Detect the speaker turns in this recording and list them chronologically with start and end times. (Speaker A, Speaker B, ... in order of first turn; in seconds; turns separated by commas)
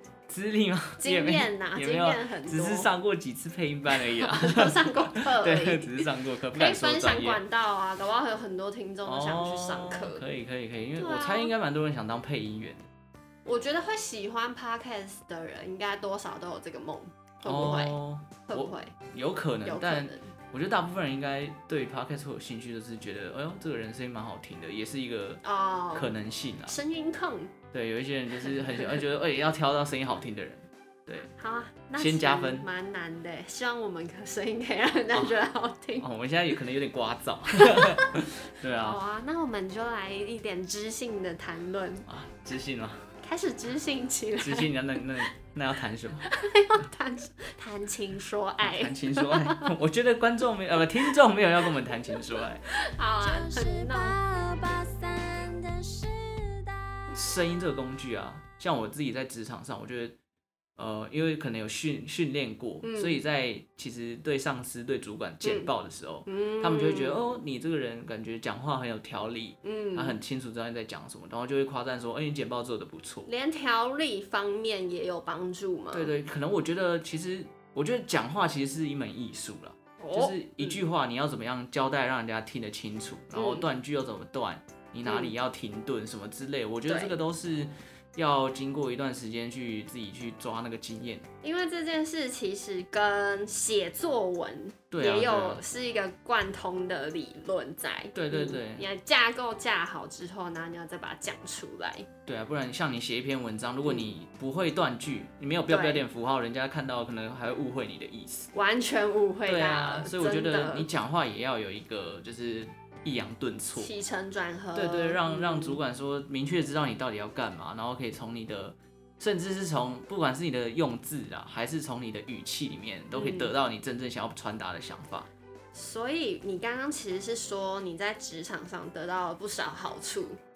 Speaker A: 0.3-7.4, Speaker B: 1.0-2.9, Speaker B: 3.9-10.2, Speaker A: 9.0-12.9, Speaker B: 11.0-11.5, Speaker B: 13.4-18.0, Speaker A: 17.4-26.8, Speaker B: 18.5-18.9, Speaker B: 19.6-20.3, Speaker B: 25.4-26.1, Speaker B: 26.7-27.5, Speaker A: 27.7-31.3, Speaker B: 28.6-28.8, Speaker B: 31.3-36.1, Speaker A: 32.0-32.6, Speaker A: 36.0-39.0, Speaker B: 37.6-38.2, Speaker B: 38.8-42.0, Speaker A: 42.0-43.0, Speaker B: 43.2-44.7, Speaker A: 44.4-46.3, Speaker B: 46.3-49.7, Speaker A: 48.6-52.6, Speaker B: 52.8-54.2, Speaker C: 53.2-57.0, Speaker A: 57.1-60.1, Speaker A: 60.8-73.3, Speaker B: 62.8-63.2, Speaker B: 65.4-65.7, Speaker B: 66.3-67.3, Speaker B: 69.6-70.2, Speaker B: 73.3-76.1, Speaker A: 75.9-91.2, Speaker B: 80.0-80.8, Speaker B: 83.3-83.7, Speaker B: 85.0-85.3, Speaker B: 86.9-87.1, Speaker B: 91.4-102.1, Speaker A: 94.9-95.6, Speaker A: 98.1-98.9, Speaker A: 102.2-108.5, Speaker B: 105.7-106.0, Speaker B: 108.5-110.9, Speaker A: 109.5-113.9, Speaker B: 113.8-115.8, Speaker A: 114.7-125.3, Speaker B: 123.1-123.5, Speaker B: 125.7-130.4